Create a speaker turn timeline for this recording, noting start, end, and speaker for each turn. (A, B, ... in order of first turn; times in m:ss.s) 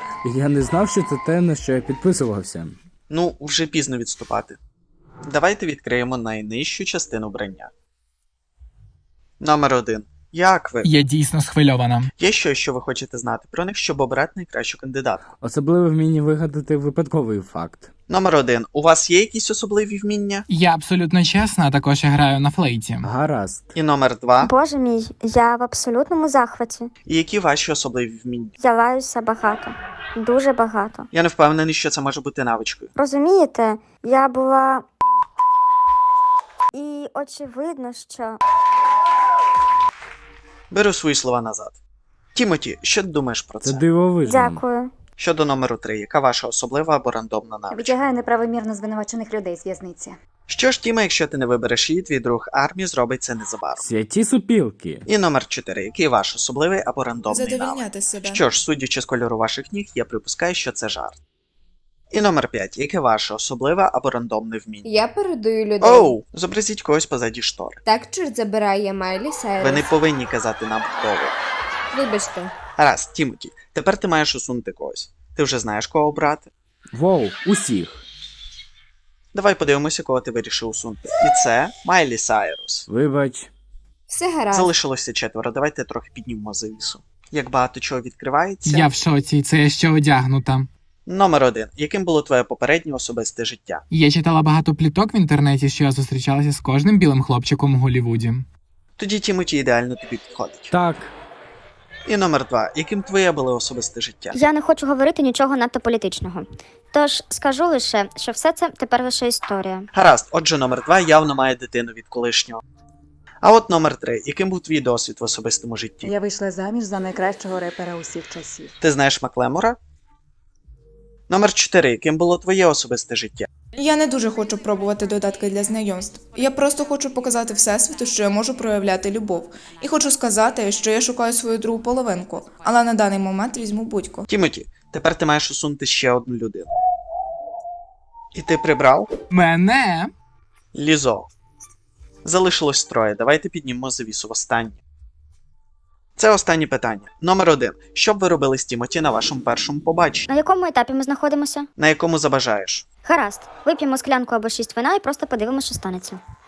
0:00.2-0:02.8 A
0:03.1-0:04.6 B
0:05.3-0:07.7 B
0:09.4-0:10.9 B
0:10.8-0:12.1 C
0:12.2-0:15.2 B
0:15.4-0:17.9 A
0:18.1-0:20.5 B
0:20.5-0:23.1 C
0:23.0-0:23.7 A
0:23.7-0:24.5 B
0:24.4-0:26.9 D
0:27.0-0:28.5 B
0:28.6-0:31.1 D
0:31.1-0:32.9 B
0:33.0-0:34.9 D
0:36.7-0:38.4 D
0:40.7-0:41.8 B
0:42.4-0:43.8 B
0:43.6-0:44.6 A
0:44.3-0:44.9 D
0:45.2-0:48.0 B
0:47.7-0:50.2 E
0:50.5-0:53.8 B
0:53.8-0:55.1 A
0:55.1-1:01.2 B
0:57.3-0:58.5 F
1:02.1-1:05.0 B
1:04.9-1:06.0 G
1:05.8-1:07.8 B
1:07.9-1:09.7 G
1:09.6-1:11.4 B
1:11.9-1:12.5 G
1:12.8-1:16.5 B
1:16.9-1:18.0 A
1:19.3-1:22.9 B
1:22.9-1:23.5 A
1:24.1-1:24.7 G
1:24.5-1:28.9 B
1:28.6-1:30.7 C
1:31.1-1:33.8 B
1:33.9-1:38.5 C
1:39.0-1:40.7 B
1:40.7-1:41.1 A
1:42.1-1:44.4 B
1:44.3-1:49.9 D
1:49.9-1:52.6 B
1:53.4-1:56.1 B
1:56.0-1:58.7 E
1:58.8-1:59.8 B
2:01.3-2:03.5 B
2:03.7-2:14.3 F
2:14.3-2:16.7 B
2:18.3-2:19.1 B
2:19.3-2:20.1 C
2:20.7-2:21.3 B
2:22.2-2:24.8 B
2:26.2-2:30.3 B
2:30.3-2:31.7 D
2:31.8-2:32.9 B
2:33.0-2:36.2 D